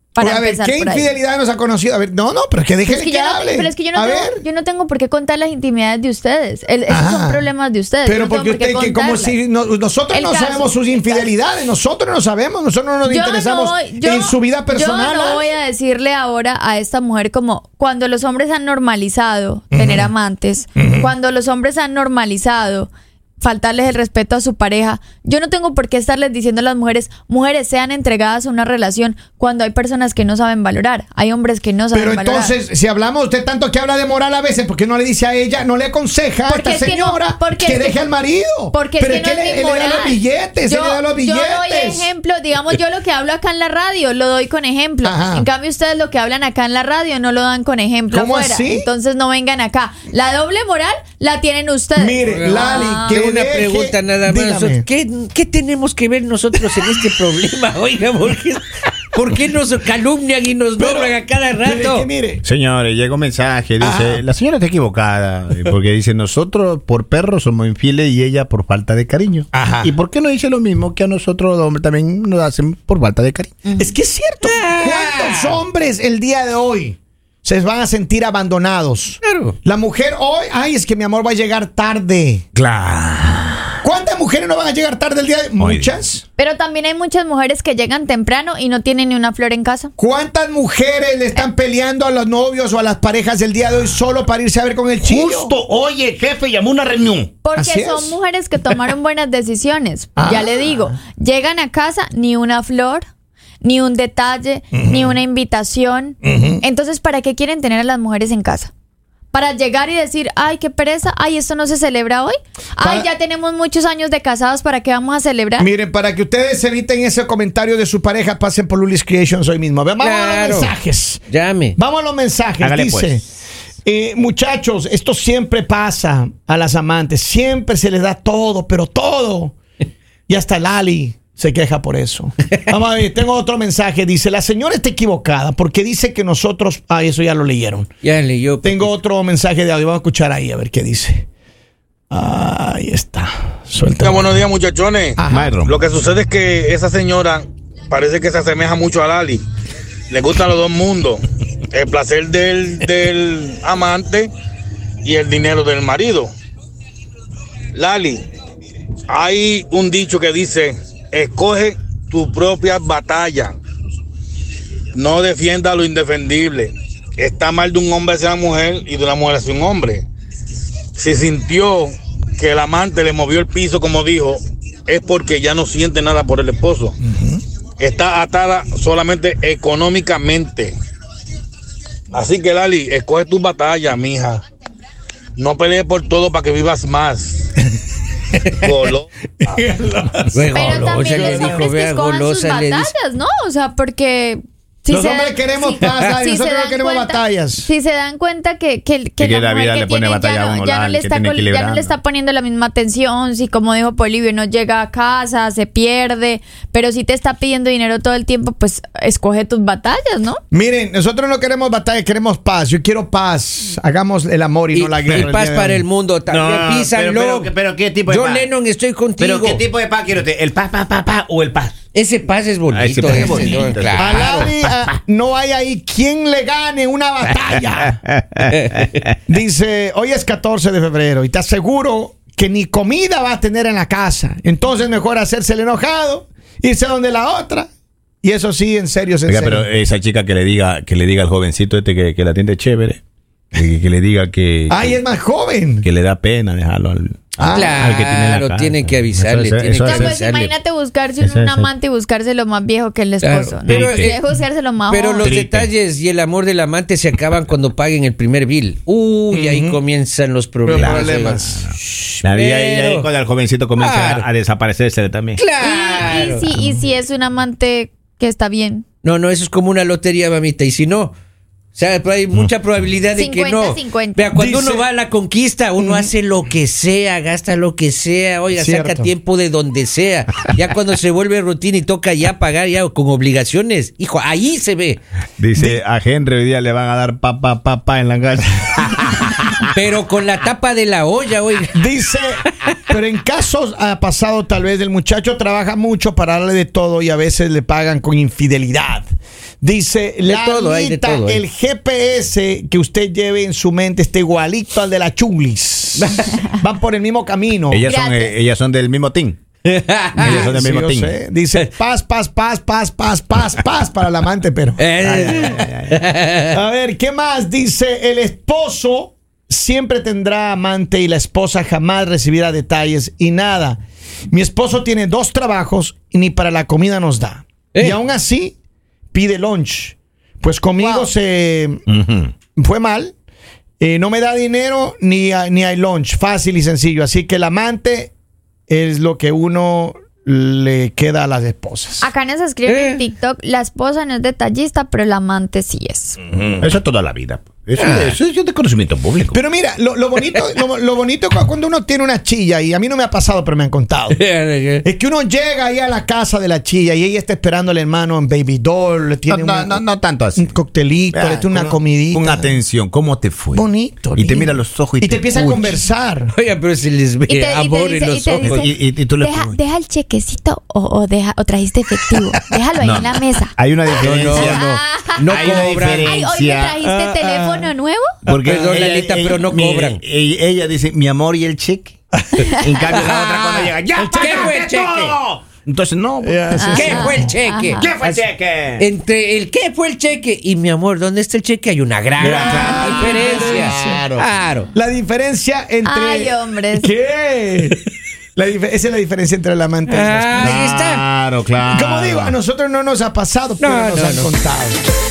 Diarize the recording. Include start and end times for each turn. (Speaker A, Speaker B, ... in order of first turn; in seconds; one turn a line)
Speaker A: 0.1-1.1
Speaker B: 0.2-4.4
Speaker A: 2.8-9.4
Speaker B: 6.9-7.5
Speaker B: 8.0-15.5
Speaker A: 10.1-11.3
Speaker A: 13.0-32.5
Speaker B: 19.7-20.1
Speaker B: 20.8-21.1
Speaker B: 31.9-42.1
Speaker A: 36.5-38.1
Speaker A: 38.7-53.2
Speaker B: 45.0-45.5
Speaker B: 48.1-48.9
Speaker B: 52.0-54.9
Speaker C: 52.2-62.1
Speaker B: 60.8-62.4
Speaker D: 62.4-73.5
Speaker B: 63.8-64.2
Speaker B: 69.5-69.9
Speaker B: 73.8-82.4
Speaker C: 74.4-75.6
Speaker C: 79.2-79.5
Speaker D: 82.5-83.8
Speaker B: 83.8-86.2
Speaker D: 85.6-85.9
Speaker A: 86.4-89.9
Speaker B: 90.0-95.5
Speaker D: 95.0-97.3
Speaker A: 97.4-103.0
Speaker B: 97.5-98.1
Speaker B: 100.2-100.9
Speaker A: 103.6-108.7
Speaker B: 104.7-105.2
Speaker B: 106.2-106.6
Speaker A: 109.3-115.7
Speaker B: 112.8-113.1
Speaker B: 115.6-121.2
Speaker C: 120.0-120.8
Speaker C: 121.3-121.8
Speaker B: 121.8-123.2
Speaker D: 122.6-123.2
Speaker B: 123.8-129.5
Speaker B: 130.3-137.9
Speaker C: 138.0-138.9
Speaker B: 138.6-141.3
Speaker B: 142.1-144.4
Speaker E: 144.0-149.4
Speaker B: 145.2-145.6
Speaker D: 145.3-145.8
Speaker E: 150.1-154.3
Speaker E: 155.0-156.3
Speaker E: 157.7-158.2
Speaker E: 159.1-163.6
Speaker E: 164.9-170.0
Speaker E: 170.9-176.9
Speaker B: 177.0-177.4
Speaker E: 177.8-180.7
Speaker E: 182.1-184.4
Speaker E: 185.4-187.5
Speaker E: 188.6-189.1
Speaker B: 189.4-191.7
Speaker C: 190.3-192.9
Speaker A: 190.5-210.4
Speaker B: 194.9-197.7
Speaker D: 199.2-201.9
Speaker B: 210.5-215.8
Speaker C: 214.7-217.5
Speaker D: 216.3-218.5
Speaker C: 218.1-219.7
Speaker D: 219.2-221.8
Speaker C: 221.9-224.5
Speaker D: 222.7-224.8
Speaker B: 223.2-228.0
Speaker D: 228.1-229.0
Speaker C: 228.5-228.9
Speaker B: 229.3-237.7
Speaker B: 238.2-239.7
Speaker D: 239.3-243.0
Speaker D: 243.5-245.0
Speaker B: 244.7-245.8
Speaker D: 245.8-250.1
Speaker B: 247.4-247.8
Speaker C: 247.5-250.5
Speaker A: 249.8-255.3
Speaker D: 251.2-251.7
Speaker C: 253.2-254.2
Speaker D: 253.7-254.2
Speaker C: 254.9-263.1
Speaker D: 255.2-255.7
Speaker B: 259.3-259.8
Speaker B: 260.6-261.6
Speaker D: 260.7-265.4
Speaker C: 263.8-264.3
Speaker C: 265.4-266.5
Speaker A: 265.6-268.8
Speaker C: 269.0-271.1
Speaker C: 271.7-285.0
Speaker A: 273.1-274.3
Speaker B: 274.3-274.9
Speaker B: 275.8-276.1
Speaker B: 278.5-279.1
Speaker D: 285.4-289.6
Speaker B: 285.6-285.8
Speaker C: 289.7-291.7
Speaker B: 291.7-299.1
Speaker B: 299.6-307.9
Speaker C: 300.2-301.4
Speaker C: 306.0-306.4
Speaker D: 307.7-309.4
Speaker A: 307.9-308.3
Speaker C: 309.7-310.5
Speaker D: 310.1-311.2
Speaker B: 310.2-315.6
Speaker C: 314.8-316.4
Speaker D: 315.1-315.9
Speaker B: 316.5-328.6
Speaker B: 329.1-331.8
Speaker A: 330.8-331.1
Speaker D: 331.9-332.3
Speaker B: 332.5-333.1
Speaker B: 333.8-338.1
Speaker B: 338.7-342.1
Speaker A: 342.0-346.2
Speaker C: 342.6-343.0
Speaker B: 346.3-346.6
Speaker D: 346.6-349.4
Speaker C: 347.8-348.2
Speaker B: 349.3-354.2
Speaker C: 350.2-350.6
Speaker C: 354.1-354.8
Speaker B: 354.8-359.8
Speaker D: 359.3-360.5
Speaker B: 360.4-362.6
Speaker D: 361.1-365.8
Speaker B: 363.5-366.3
Speaker C: 366.3-368.7
Speaker A: 367.3-373.5
Speaker D: 368.4-369.6
Speaker D: 372.8-374.6
Speaker C: 373.9-376.2
Speaker A: 374.3-378.1
Speaker D: 375.2-376.8
Speaker B: 376.8-377.7
Speaker B: 378.2-378.6
Speaker D: 378.3-381.9
Speaker C: 378.4-380.0
Speaker B: 382.1-382.5
Speaker D: 382.5-386.9
Speaker C: 382.9-385.2
Speaker B: 383.9-384.6
Speaker B: 386.2-387.3
Speaker A: 386.5-387.9
Speaker C: 386.7-388.3
Speaker D: 387.8-388.9
Speaker C: 388.8-394.7
Speaker D: 392.2-394.3
Speaker B: 392.2-394.1
Speaker B: 394.7-397.8
Speaker A: 395.8-396.9
Speaker B: 398.4-400.6
Speaker C: 399.9-401.0
Speaker D: 400.4-402.3
Speaker B: 401.7-404.8
Speaker C: 403.6-404.3